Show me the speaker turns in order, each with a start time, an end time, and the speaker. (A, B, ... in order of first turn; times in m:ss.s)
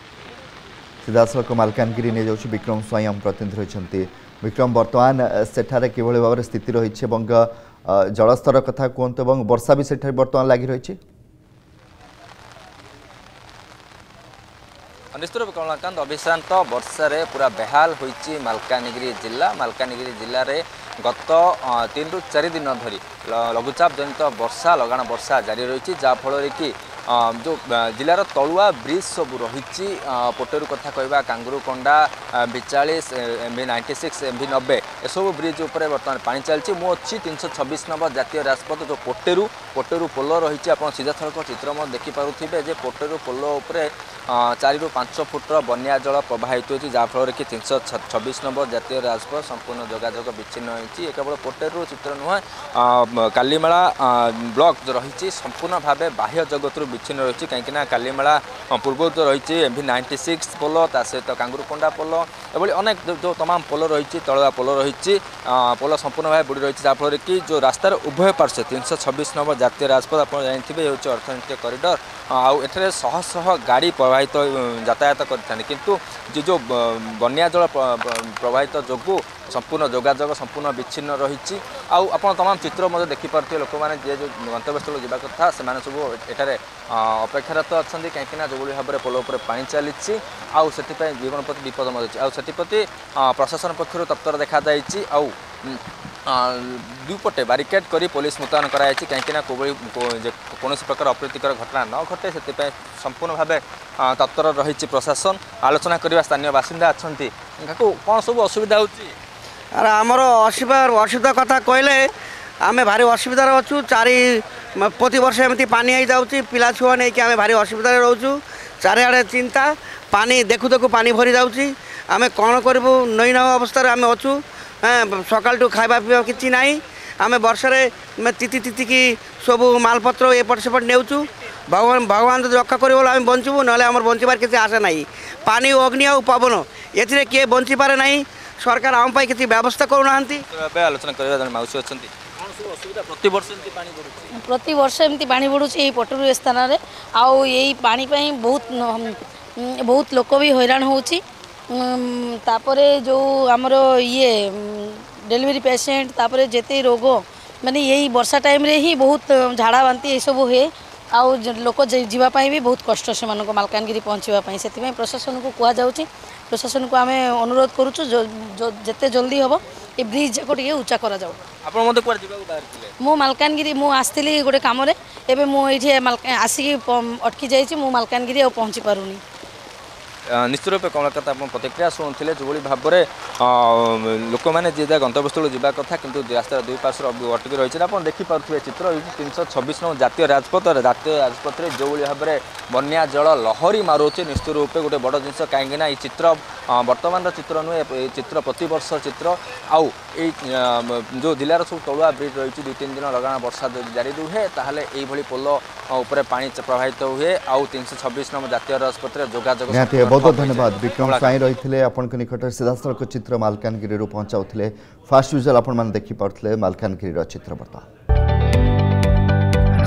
0:01.0-0:11.0 A
0:15.1-1:49.1 B
1:49.7-1:52.0 C
1:52.6-2:20.4 C
2:20.5-2:24.3 B
2:24.3-2:51.4 D
2:51.6-2:52.9 B
2:53.0-2:59.2 D
3:00.3-3:31.4 B
3:29.7-3:37.8 A